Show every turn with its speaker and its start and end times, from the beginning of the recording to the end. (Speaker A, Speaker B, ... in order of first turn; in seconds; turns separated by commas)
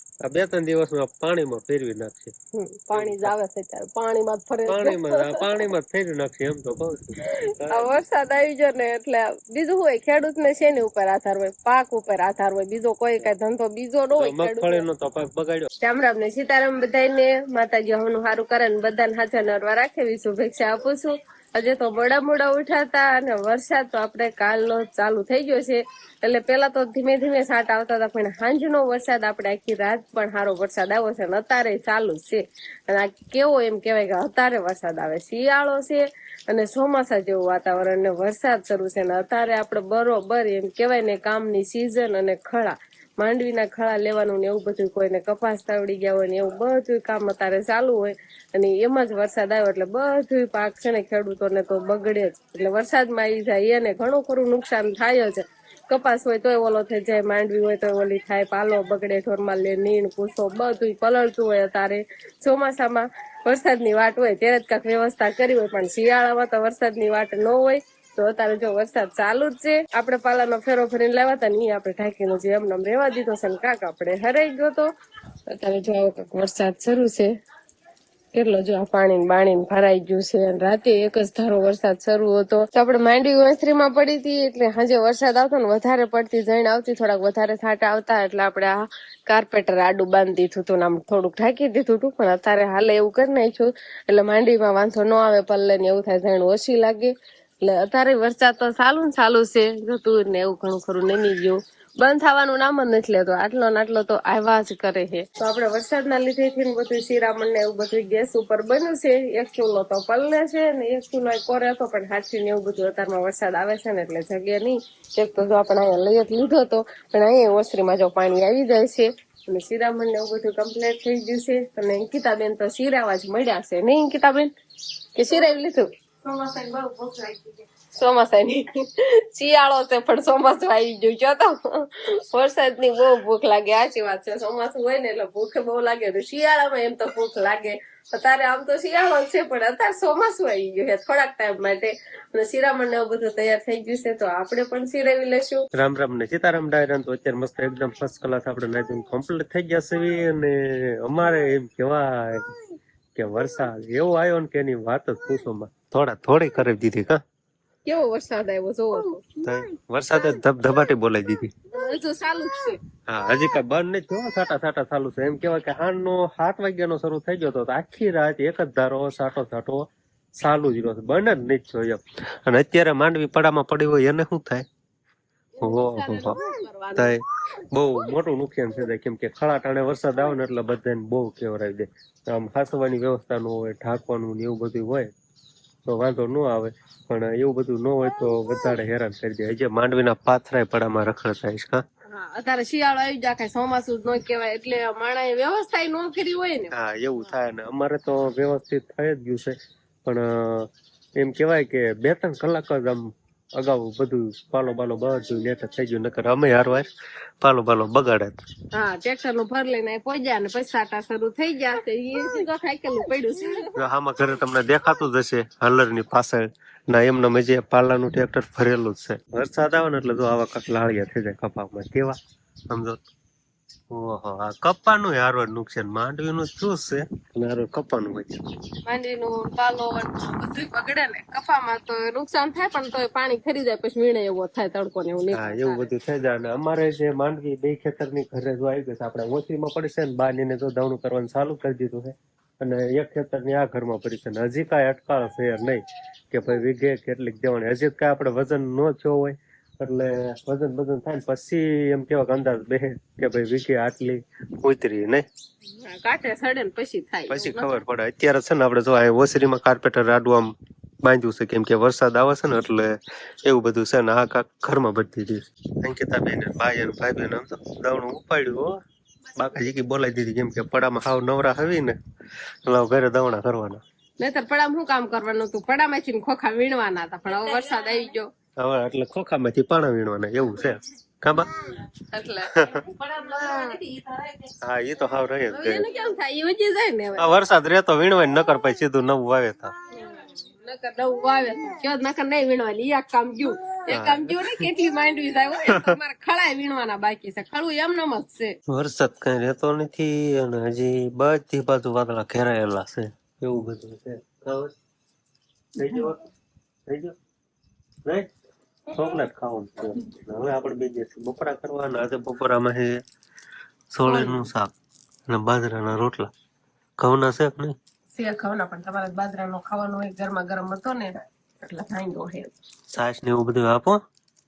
Speaker A: 0.2-2.3, Speaker B: 2.5-5.4, Speaker A: 2.9-3.3, Speaker A: 4.7-8.0, Speaker B: 7.2-14.8, Speaker A: 14.1-15.7, Speaker B: 15.8-74.9, Speaker B: 75.5-77.3, Speaker B: 78.3-124.5, Speaker B: 125.2-145.7, Speaker A: 145.7-152.5, Speaker A: 153.1-157.2, Speaker B: 157.8-159.3, Speaker A: 159.4-161.5, Speaker B: 161.7-162.8, Speaker A: 163.1-174.7, Speaker B: 175.6-177.2, Speaker A: 175.6-176.3, Speaker A: 176.9-185.1, Speaker A: 185.8-191.8, Speaker B: 192.1-196.7, Speaker A: 196.7-206.9, Speaker A: 207.4-208.3, Speaker B: 208.7-213.7, Speaker A: 213.7-222.2, Speaker A: 222.7-223.0, Speaker A: 223.9-228.4, Speaker B: 228.8-235.9, Speaker A: 235.3-255.2, Speaker B: 255.7-257.7, Speaker A: 257.3-260.5, Speaker A: 261.0-268.8, Speaker A: 269.4-272.0, Speaker A: 272.7-273.8, Speaker B: 274.2-278.3, Speaker A: 278.6-281.7, Speaker B: 282.1-284.5, Speaker A: 284.6-285.8, Speaker B: 285.5-287.3, Speaker A: 287.2-289.7, Speaker B: 289.9-298.6, Speaker A: 293.9-294.6, Speaker A: 295.7-295.9, Speaker A: 298.7-304.7, Speaker A: 305.8-306.2, Speaker A: 306.9-307.1, Speaker A: 308.9-313.0, Speaker A: 313.9-314.7, Speaker B: 314.0-314.5, Speaker A: 315.3-316.3, Speaker A: 317.0-317.7, Speaker B: 318.1-322.5, Speaker A: 322.9-324.0